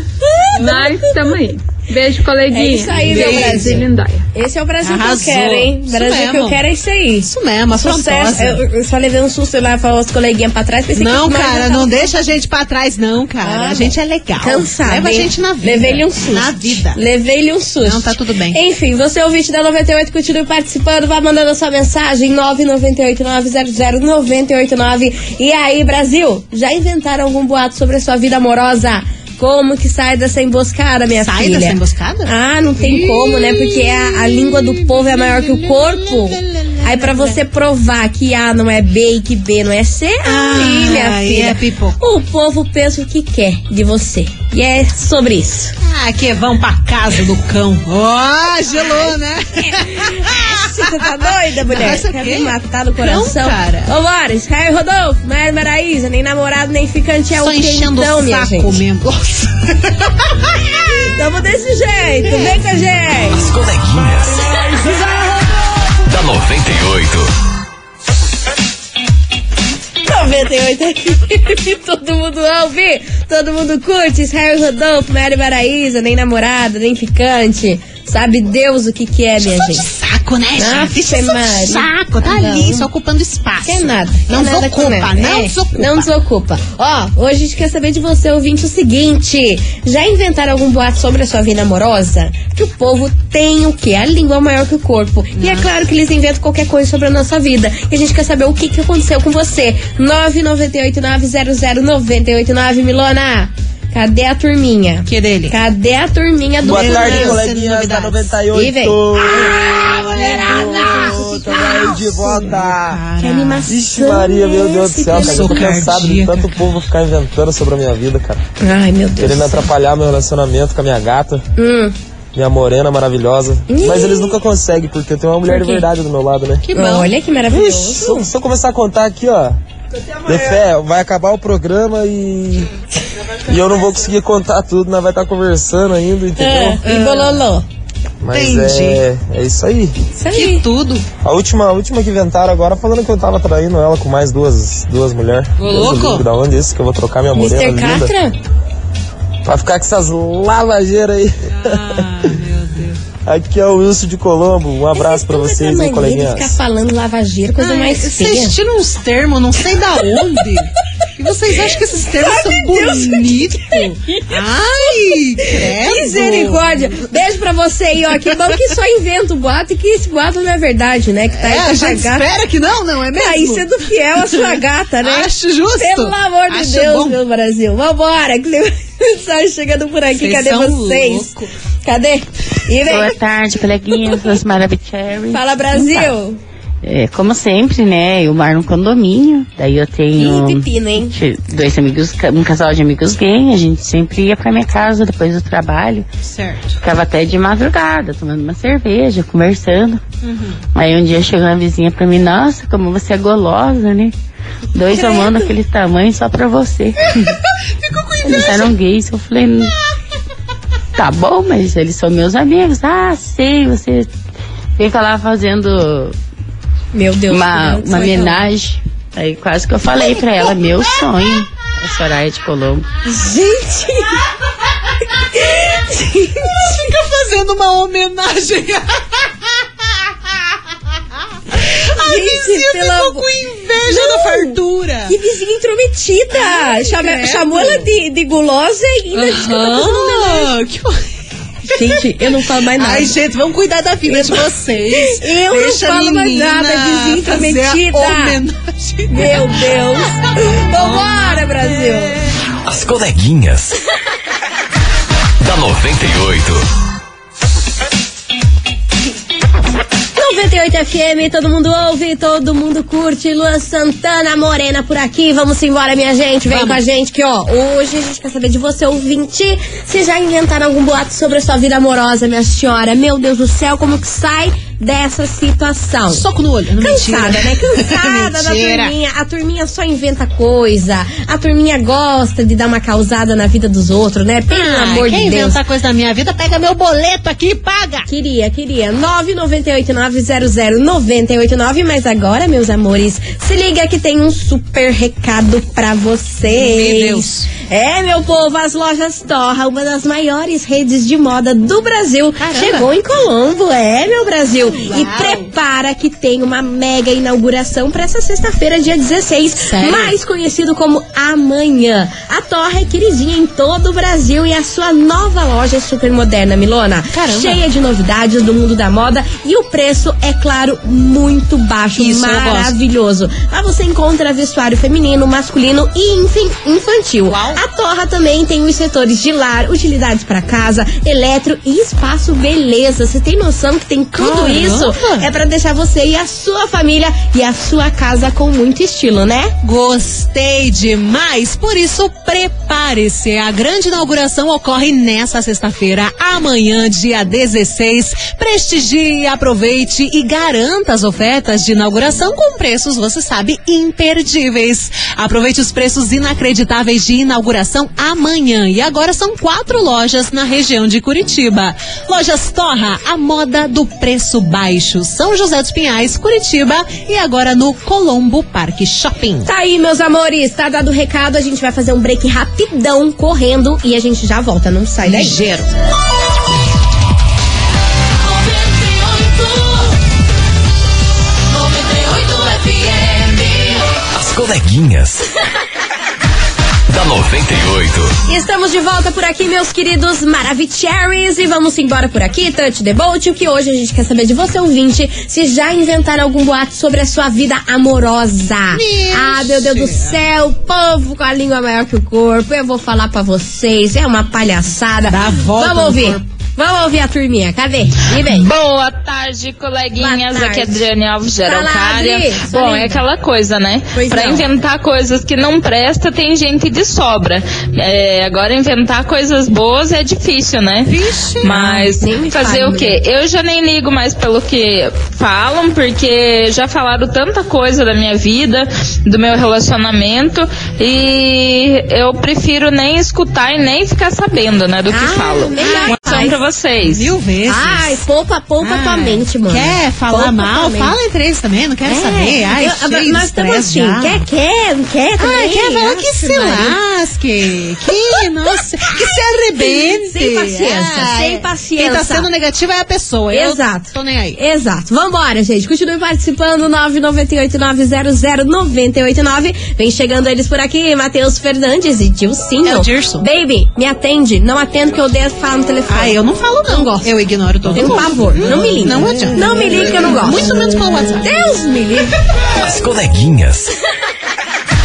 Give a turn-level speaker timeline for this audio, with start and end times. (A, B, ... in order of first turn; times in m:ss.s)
0:00.2-0:01.4 A
0:00.6-0:04.3 B
0:02.5-0:12.2 A
0:03.0-0:03.8 C
0:04.8-0:06.6 C
0:07.2-0:08.6 C
0:11.0-0:17.0 C
0:13.4-0:45.8 A
0:17.8-0:18.6 C
0:31.2-0:37.4 C
0:40.3-0:42.0 C
0:45.8-0:53.9 C
0:48.9-0:58.8 A
0:57.4-1:01.1 C
1:01.1-1:03.5 A
1:02.3-1:02.6 C
1:03.4-1:04.4 D
1:04.6-1:05.5 A
1:06.1-1:07.3 D
1:10.0-1:19.9 A
1:19.4-1:26.1 C
1:20.6-1:22.9 A
1:23.6-1:47.4 A
1:35.4-1:35.7 C
1:45.1-1:45.6 C
1:46.6-1:48.4 C
1:46.6-1:53.0 E
1:48.5-1:52.6 A
1:49.8-1:53.7 C
1:53.2-1:55.9 A
1:53.7-1:58.4 E
1:55.1-1:56.8 C
1:58.6-1:59.7 A
1:59.2-2:01.5 E
2:01.6-2:02.0 A
2:02.4-2:06.6 E
2:03.7-2:04.4 A
2:05.5-2:05.9 A
2:06.6-2:07.1 C
2:06.7-2:08.3 A
2:07.5-2:09.6 E
2:10.3-2:12.7 E
2:13.5-2:16.8 E
2:16.4-2:17.7 A
2:16.8-2:17.4 C
2:18.2-2:20.0 E
2:18.3-2:19.0 C
2:20.2-2:20.6 A
2:20.3-2:21.0 C
2:21.2-2:28.1 E
2:25.6-2:26.3 C
2:27.4-2:28.4 A
2:29.4-2:31.9 E
2:31.5-2:33.0 C
2:33.3-2:36.6 E
2:34.9-2:38.6 A
2:37.6-2:47.1 C
2:42.2-2:44.4 A
2:44.9-2:52.3 A
2:51.3-2:57.2 C
2:53.2-3:01.3 A
3:00.2-3:01.5 C
3:01.8-3:03.2 A
3:02.8-3:06.2 F
3:05.3-3:06.4 A
3:06.8-3:16.1 F
3:10.2-3:11.2 A
3:16.2-3:16.8 C
3:16.8-3:20.0 F
3:20.2-3:20.6 C
3:20.8-3:24.1 F
3:24.7-3:27.3 F
3:24.9-3:25.5 A
3:27.8-3:28.7 C
3:28.2-3:29.8 F
3:31.0-3:34.1 F
3:34.8-3:36.2 F
3:36.9-3:38.4 A
3:37.3-3:42.9 F
3:43.1-3:44.3 A
3:45.3-3:46.8 A
3:46.5-3:49.3 C
3:51.5-3:55.2 C
3:52.0-3:53.3 A
3:53.9-4:00.5 A
3:56.3-3:57.9 C
3:59.1-4:01.0 C
4:01.7-4:03.2 A
4:01.8-4:02.0 C
4:02.8-4:09.8 C
4:04.1-4:08.4 A
4:09.1-4:12.2 A
4:10.7-4:12.1 C
4:12.7-4:13.7 D
4:15.4-4:16.6 D
4:20.2-4:36.2 A
4:26.5-4:26.8 C
4:36.1-4:38.9 C
4:36.8-4:45.6 A
4:44.5-4:48.1 C
4:48.1-5:39.5 A
4:56.4-4:57.5 C
5:02.4-5:02.9 C
5:04.6-5:05.5 C
5:09.6-5:10.1 C
5:17.1-5:17.6 C
5:22.0-5:22.8 C
5:27.3-5:27.6 C
5:34.2-5:35.3 C
5:39.6-6:09.5 C
6:09.4-6:15.4 A
6:15.0-6:15.7 C
6:24.1-6:25.2 D
6:26.9-6:28.2 D
6:28.3-6:48.5 A
6:38.7-6:40.2 C
6:45.1-6:46.2 C
6:48.3-7:17.1 G
6:50.0-6:50.8 A
6:51.4-6:53.0 A
6:53.9-6:54.5 A
7:00.9-7:01.6 C
7:01.5-7:03.0 A
7:14.9-7:16.4 A
7:15.6-7:16.0 C
7:16.8-7:18.0 C
7:17.5-7:21.0 A
7:18.6-7:24.2 C
7:21.9-7:26.8 A
7:25.2-7:34.4 C
7:29.6-7:32.3 A
7:33.3-7:47.1 A
7:42.6-7:43.2 C
7:45.9-7:51.3 C
7:47.7-7:50.5 A
7:51.2-7:52.2 A
7:52.6-7:53.7 D